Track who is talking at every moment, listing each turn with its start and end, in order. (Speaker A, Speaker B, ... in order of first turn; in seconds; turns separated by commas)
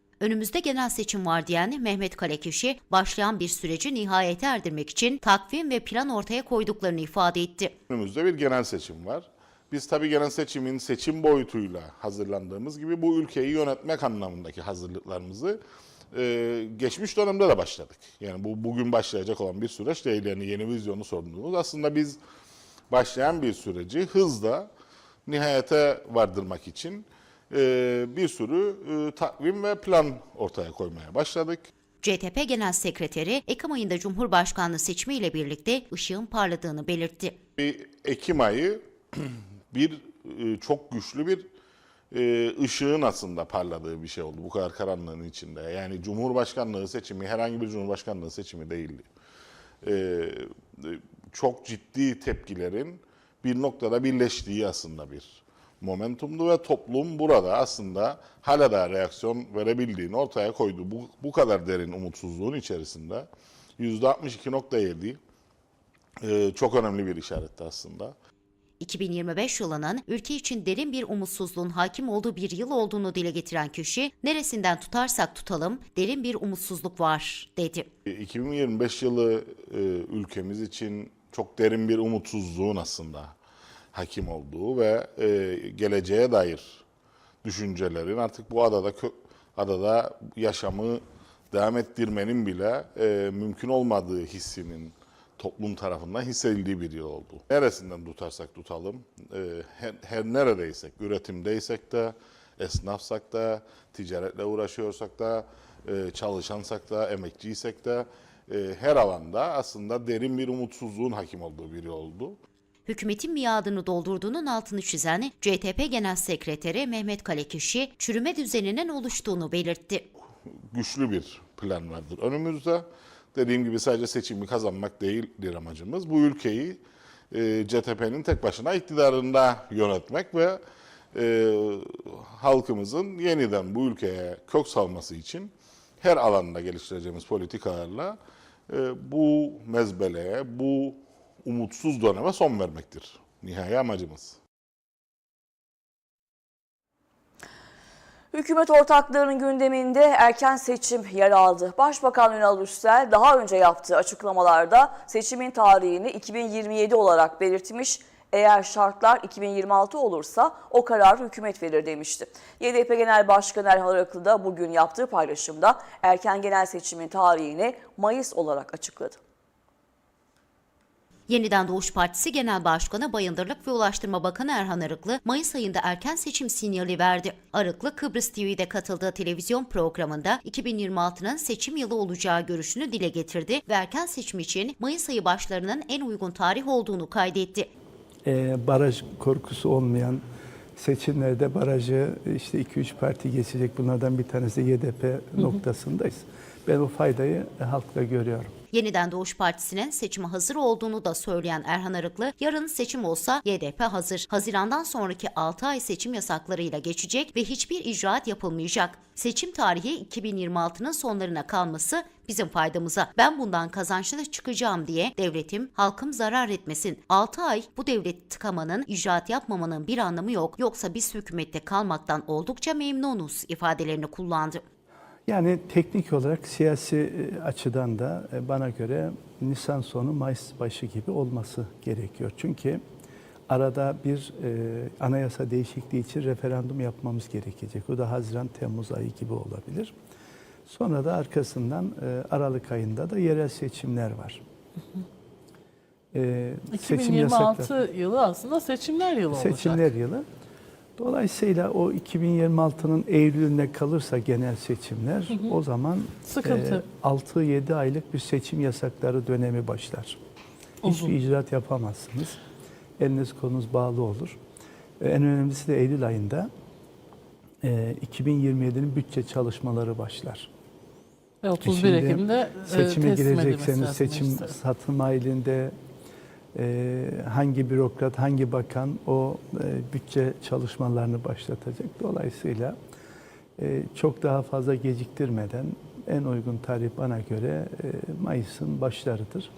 Speaker A: 0.2-7.8, Speaker B: 7.9-15.6, Speaker B: 16.1-22.2, Speaker B: 22.9-24.7, Speaker B: 25.2-31.7, Speaker A: 32.0-37.4, Speaker B: 37.6-41.5, Speaker B: 42.1-49.0, Speaker B: 49.8-65.2, Speaker B: 66.2-68.2, Speaker A: 68.8-77.9, Speaker B: 78.1-83.3, Speaker B: 83.9-86.8, Speaker B: 87.4-112.4, Speaker A: 112.9-120.0, Speaker B: 120.7-130.6, Speaker B: 131.1-138.2, Speaker B: 138.7-144.4, Speaker C: 148.3-169.2, Speaker A: 171.3-187.7, Speaker D: 188.2-190.2, Speaker D: 190.8-198.5, Speaker A: 198.7-224.6, Speaker D: 225.3-232.8, Speaker D: 233.5-239.9, Speaker D: 240.7-244.4, Speaker D: 246.1-247.7, Speaker E: 246.7-249.8, Speaker D: 249.3-250.2, Speaker D: 251.0-260.2, Speaker E: 256.3-256.8, Speaker D: 260.8-262.4, Speaker E: 260.9-261.1, Speaker D: 263.0-264.4, Speaker D: 265.0-266.5, Speaker D: 267.6-270.5, Speaker E: 271.4-274.5, Speaker D: 271.6-275.7, Speaker D: 276.5-282.8, Speaker D: 283.6-289.5